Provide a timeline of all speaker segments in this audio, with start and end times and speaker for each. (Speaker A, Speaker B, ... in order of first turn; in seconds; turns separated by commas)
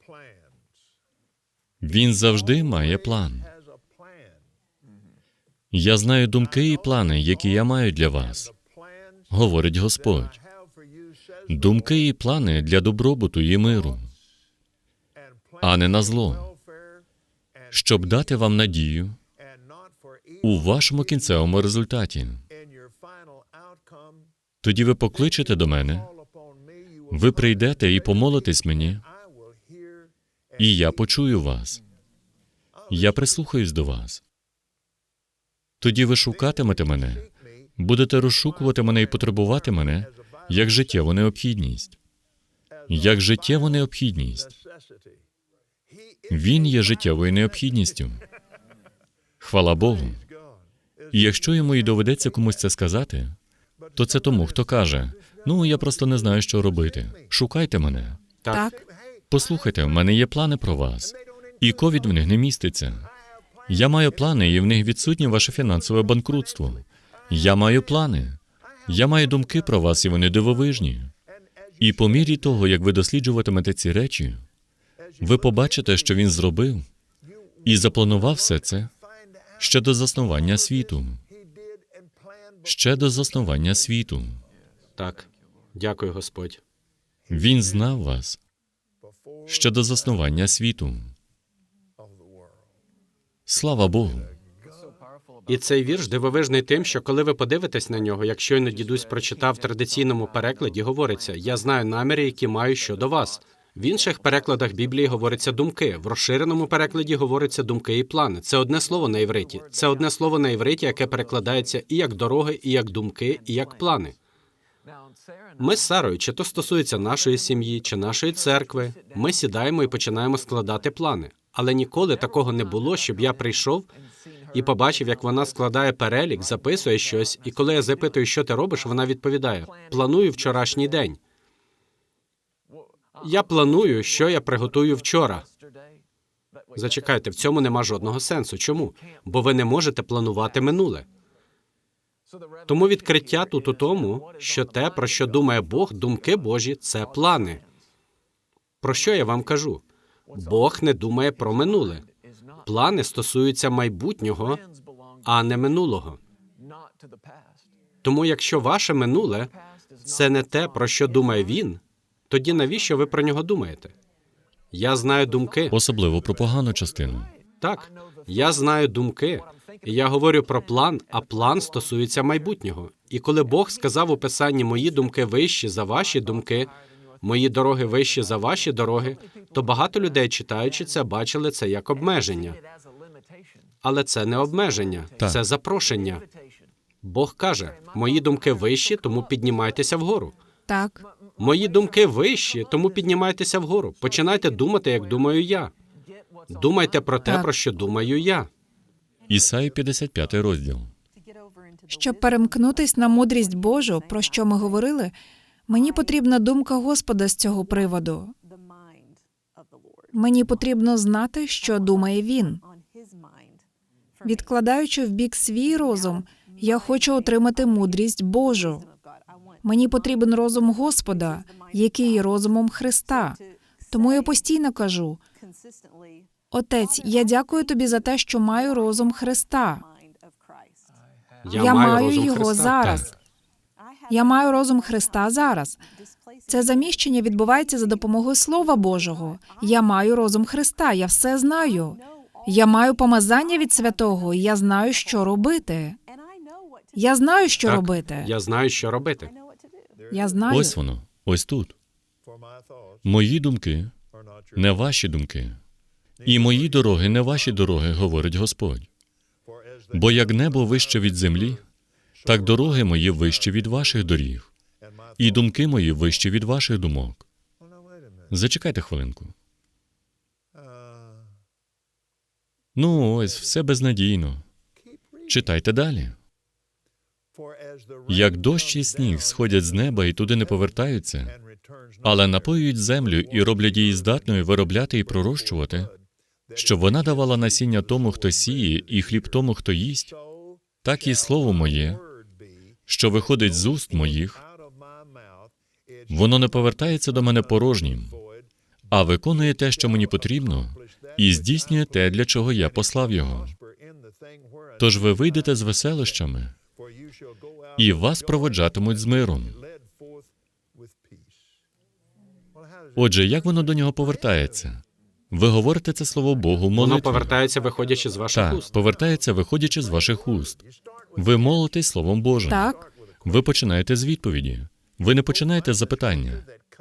Speaker A: 1.8-3.5, Speaker A: 5.7-8.5, Speaker A: 9.3-10.4, Speaker A: 11.5-14.1, Speaker A: 15.6-16.5, Speaker A: 17.7-19.2, Speaker A: 20.4-22.4, Speaker A: 24.6-26.1, Speaker A: 27.1-29.0, Speaker A: 30.6-31.8, Speaker A: 32.9-34.2, Speaker A: 35.8-42.0, Speaker A: 42.9-44.5, Speaker A: 46.3-48.2, Speaker A: 49.4-50.2, Speaker A: 51.1-53.4, Speaker A: 54.0-58.2, Speaker B: 58.4-58.7, Speaker C: 58.5-58.8, Speaker A: 59.3-63.1, Speaker A: 63.7-71.1, Speaker A: 71.8-74.4, Speaker A: 75.2-76.8, Speaker A: 77.6-78.9, Speaker A: 79.6-81.2, Speaker A: 82.6-84.4, Speaker B: 85.0-86.6, Speaker A: 87.3-88.4, Speaker A: 89.5-91.1, Speaker A: 93.5-94.3, Speaker B: 95.5-114.2, Speaker B: 115.6-123.9, Speaker B: 124.5-131.2, Speaker B: 133.2-135.5, Speaker B: 136.8-141.1, Speaker B: 142.7-147.6, Speaker B: 148.8-149.8, Speaker B: 150.3-152.1, Speaker B: 152.6-154.6, Speaker B: 155.2-156.2, Speaker B: 158.0-163.9, Speaker B: 164.7-165.8, Speaker A: 165.7-167.3, Speaker B: 167.6-182.6, Speaker B: 183.8-186.2, Speaker B: 187.0-190.3, Speaker C: 190.7-191.0, Speaker B: 191.4-195.7, Speaker B: 196.5-198.5, Speaker A: 199.3-200.9, Speaker C: 201.9-205.1, Speaker C: 205.7-208.3, Speaker C: 210.1-212.6, Speaker C: 214.2-218.9, Speaker C: 219.6-225.2, Speaker C: 226.5-229.9, Speaker B: 231.4-233.1, Speaker C: 231.5-233.1, Speaker C: 234.1-235.8, Speaker C: 236.5-246.0, Speaker C: 246.9-248.3, Speaker B: 247.6-249.3, Speaker C: 250.1-250.7, Speaker A: 250.5-251.7, Speaker A: 253.0-253.9, Speaker A: 254.5-255.6, Speaker A: 256.2-258.9, Speaker A: 259.9-261.6, Speaker A: 262.2-264.5, Speaker A: 265.2-267.2, Speaker A: 268.3-269.3, Speaker A: 272.7-274.4, Speaker A: 275.3-276.1, Speaker A: 278.1-281.4, Speaker A: 282.0-285.9, Speaker A: 286.5-290.1, Speaker A: 290.8-292.0, Speaker A: 292.9-294.4, Speaker A: 296.1-298.2, Speaker A: 298.9-303.5, Speaker A: 304.8-306.5, Speaker A: 307.8-309.6, Speaker A: 312.9-317.3, Speaker B: 316.7-318.7, Speaker A: 318.3-320.6, Speaker A: 321.1-326.4, Speaker C: 322.5-322.9